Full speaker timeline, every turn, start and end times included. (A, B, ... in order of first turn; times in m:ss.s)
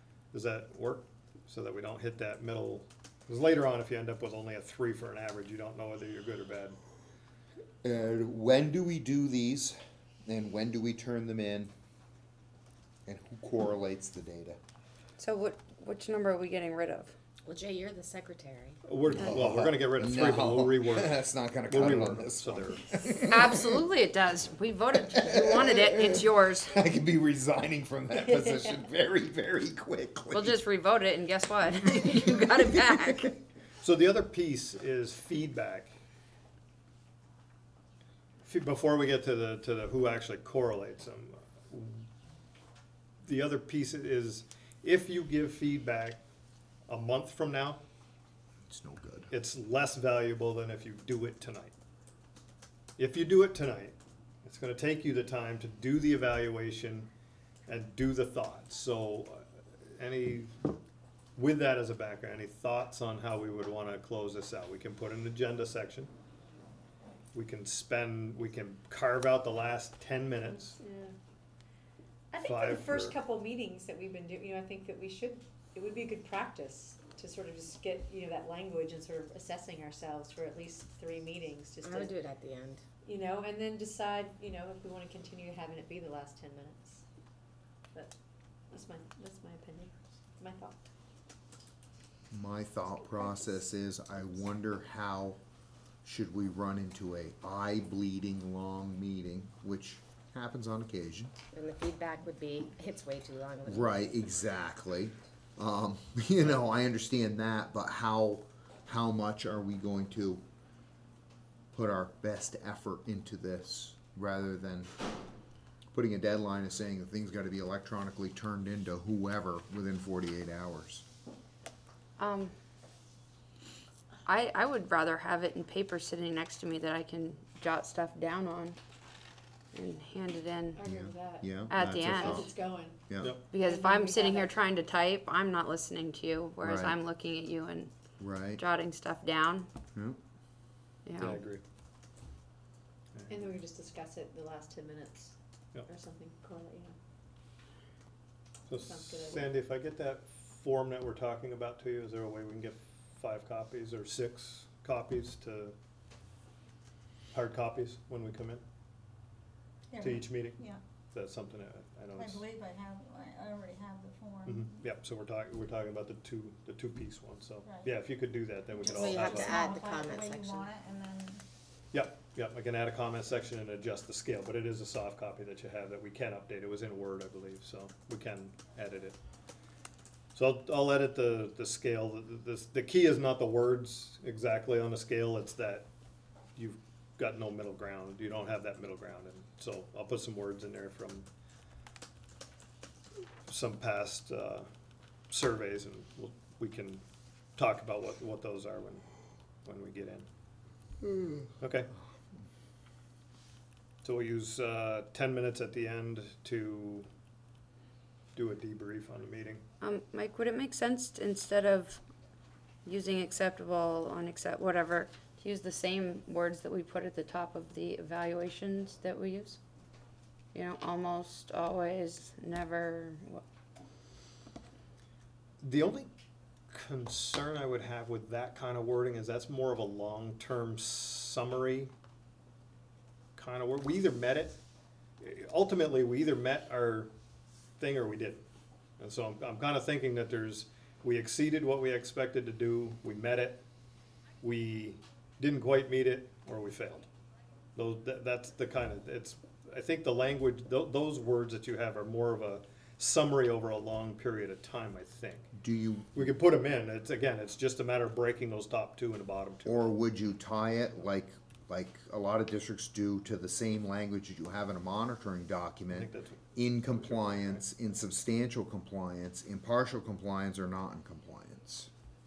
0:00.3-0:06.8 A
0:07.8-0:11.7 B
0:13.0-0:14.6 B
0:15.2-0:17.1 C
0:17.4-0:18.8 D
0:18.8-0:23.0 A
0:19.1-0:23.8 B
0:23.2-0:26.7 C
0:25.1-0:30.6 B
0:30.3-0:33.4 C
0:33.8-0:35.9 A
0:38.4-0:42.1 A
0:43.2-0:46.2 A
0:46.9-0:47.8 A
0:48.7-0:49.3 B
0:49.3-0:51.7 A
0:53.0-0:57.1 A
0:57.6-1:00.5 A
1:01.4-1:06.1 A
1:07.3-1:10.8 A
1:10.7-1:11.1 E
1:12.3-1:22.2 E
1:12.4-1:13.2 A
1:21.8-1:22.8 D
1:23.0-1:27.0 E
1:28.7-1:30.9 E
1:32.3-1:35.4 B
1:36.0-1:41.3 B
1:41.5-1:44.3 D
1:43.7-1:50.4 B
1:51.7-1:54.9 B
1:55.9-2:01.0 B
2:02.2-2:02.5 C
2:04.2-2:08.8 C
2:09.7-2:10.8 C
2:10.7-2:14.6 E
2:10.8-2:12.5 B
2:11.7-2:12.5 C
2:13.1-2:13.4 B
2:13.5-2:17.9 C
2:16.6-2:17.0 B
2:18.2-2:18.6 B
2:18.6-2:19.7 C
2:21.0-2:21.4 C
2:21.2-2:21.6 A
2:23.1-2:23.5 A
2:23.3-2:25.3 E
2:25.8-2:27.0 E
2:28.7-2:35.7 A
2:28.7-2:29.5 E
2:37.3-2:38.6 A
2:39.9-2:40.8 F
2:40.0-2:40.6 A
2:41.1-2:42.4 A
2:42.2-2:44.7 F
2:44.4-2:49.6 A
2:48.7-2:51.4 F
2:49.0-2:50.6 D
2:51.9-2:59.2 A
3:00.3-3:05.9 A
3:06.6-3:11.3 A
3:13.5-3:14.6 A
3:15.3-3:17.0 A
3:17.6-3:19.0 A
3:19.6-3:20.3 A
3:21.6-3:21.9 A
3:24.0-3:27.1 A
3:28.3-3:29.6 A
3:29.8-3:32.0 C
3:32.8-3:39.6 C
3:40.5-3:43.4 C
3:45.6-3:46.1 A
3:46.7-3:51.9 A
3:53.4-3:54.6 A
3:55.2-3:57.1 A
3:57.8-3:58.4 A
3:59.0-4:03.6 A
4:04.4-4:07.1 A
4:07.7-4:15.5 A
4:15.5-4:16.2 B
4:16.1-4:19.9 A
4:19.6-4:31.9 B
4:25.9-4:27.6 A